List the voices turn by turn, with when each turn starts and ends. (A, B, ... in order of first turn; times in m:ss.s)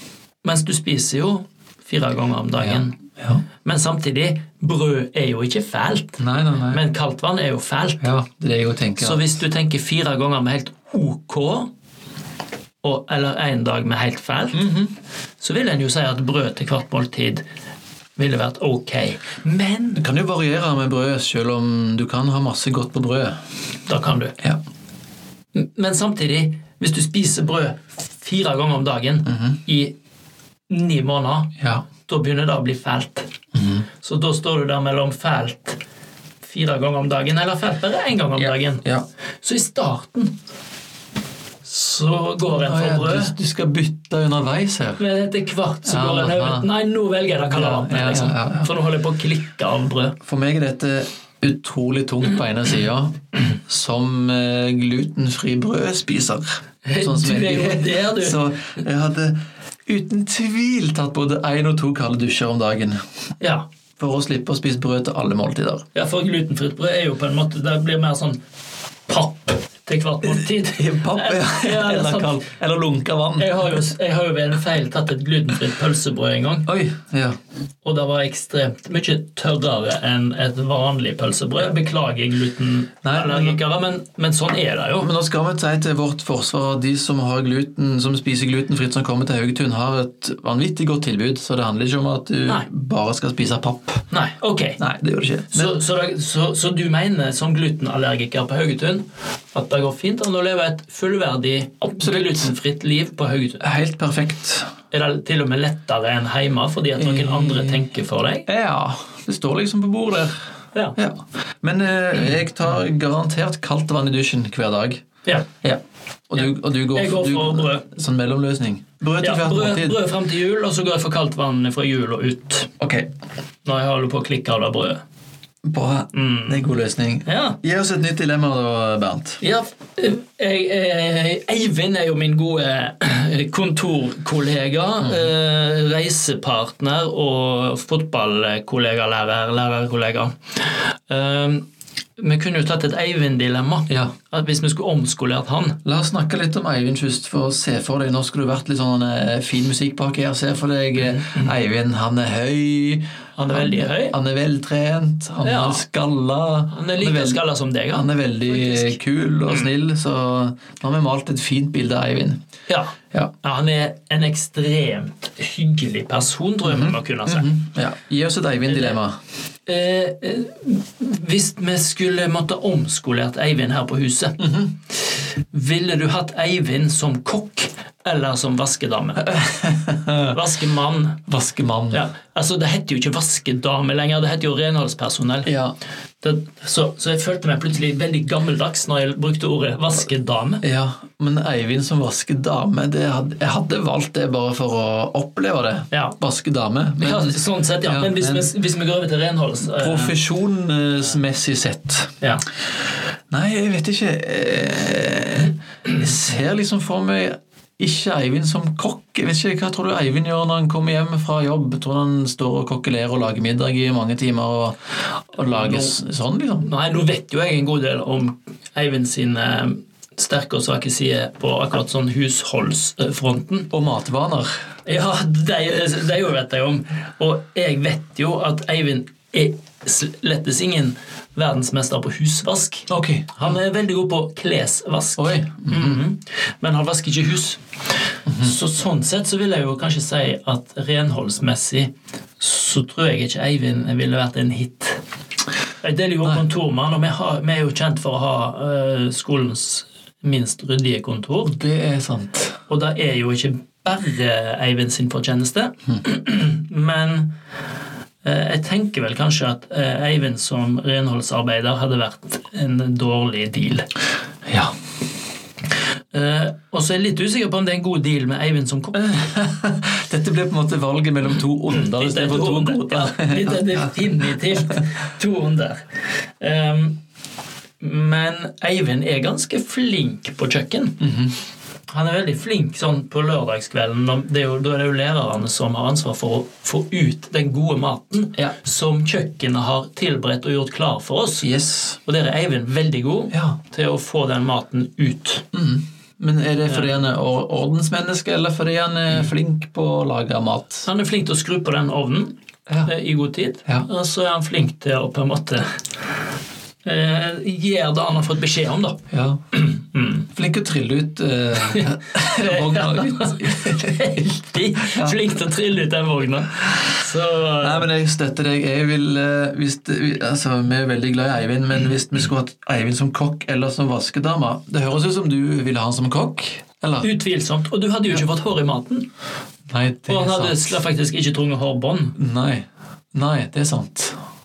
0:00.4-0:03.0 A
0:02.6-0:03.4 B
0:03.6-0:08.1 A
0:06.2-0:06.8 B
0:08.0-0:09.2 B
0:09.0-0:11.7 A
0:12.8-0:14.7 A
0:14.5-0:14.9 B
0:15.4-0:17.4 A
0:18.2-0:20.0 A
0:20.0-0:23.4 B
0:23.9-0:24.4 A
0:25.5-0:29.9 A
0:29.2-0:29.6 B
0:30.7-0:33.3 A
0:31.6-0:31.8 B
0:33.5-0:33.8 B
0:34.0-0:35.8 A
0:36.4-0:38.8 A
0:38.4-0:39.0 B
0:39.4-0:40.3 A
0:41.6-0:43.3 A
0:42.5-0:45.0 B
0:45.0-0:50.2 A
0:45.8-0:46.7 B
0:47.5-0:48.7 B
0:50.2-0:56.4 B
0:56.8-0:58.4 A
0:57.0-1:03.0 B
1:04.0-1:05.8 B
1:05.9-1:08.4 A
1:09.1-1:12.4 A
1:10.3-1:13.7 B
1:13.4-1:16.7 A
1:16.6-1:17.4 B
1:17.8-1:25.1 A
1:23.0-1:23.6 B
1:25.0-1:34.0 B
1:34.1-1:34.8 A
1:34.8-1:35.8 B
1:35.5-1:43.6 A
1:42.0-1:42.5 B
1:43.6-1:44.7 B
1:44.9-1:48.5 A
1:47.0-1:47.8 B
1:48.5-1:50.3 B
1:51.0-1:55.0 B
1:55.6-2:00.0 B
1:56.4-1:57.8 A
1:59.2-2:02.7 A
2:02.8-2:03.1 B
2:03.6-2:05.0 A
2:05.6-2:09.4 B
2:06.1-2:06.7 A
2:07.2-2:07.6 A
2:09.4-2:21.6 A
2:15.0-2:15.3 B
2:22.2-2:25.8 A
2:25.8-2:42.4 B
2:31.1-2:31.5 A
2:33.4-2:34.2 A
2:35.4-2:35.8 A
2:36.7-2:39.7 A
2:42.7-2:47.5 A
2:46.6-2:49.2 B
2:48.7-2:49.0 A
2:49.7-2:54.6 A
2:54.4-2:54.7 B
2:55.5-2:59.4 A
2:59.2-3:00.4 B
3:00.3-3:01.2 A
3:01.3-3:02.0 B
3:01.9-3:05.5 A
3:05.4-3:05.7 B
3:06.2-3:10.6 A
3:10.6-3:18.5 B
3:15.9-3:16.2 A
3:17.0-3:20.2 A
3:19.6-3:22.1 B
3:23.3-3:36.7 B
3:35.5-3:35.9 A
3:36.6-3:43.7 A
3:43.7-3:44.5 B
3:44.8-3:57.6 A
3:52.9-3:53.5 B
3:55.2-3:56.0 B
3:58.3-3:58.5 B
3:58.4-4:05.0 A
4:05.8-4:11.6 A
4:11.4-4:12.6 B
4:12.7-4:17.3 A
4:18.2-4:23.9 A
4:24.4-4:24.7 B
4:26.1-4:29.1 A
4:28.9-4:34.3 B
4:31.7-4:35.8 A
4:36.4-4:37.0 A
4:37.8-4:41.0 A
4:41.0-4:41.3 B
4:41.9-4:51.5 A
4:51.4-4:52.0 B
4:52.0-4:55.4 A
4:55.5-5:00.9 B
4:56.7-4:56.9 A
5:00.8-5:05.8 A
5:06.8-5:10.3 A
5:09.1-5:09.4 B
5:10.3-5:15.2 B
5:11.6-5:17.9 A
5:17.6-5:27.1 B
5:27.0-5:29.1 A
5:29.7-5:30.7 B
5:30.1-5:32.2 A
5:32.2-5:34.2 B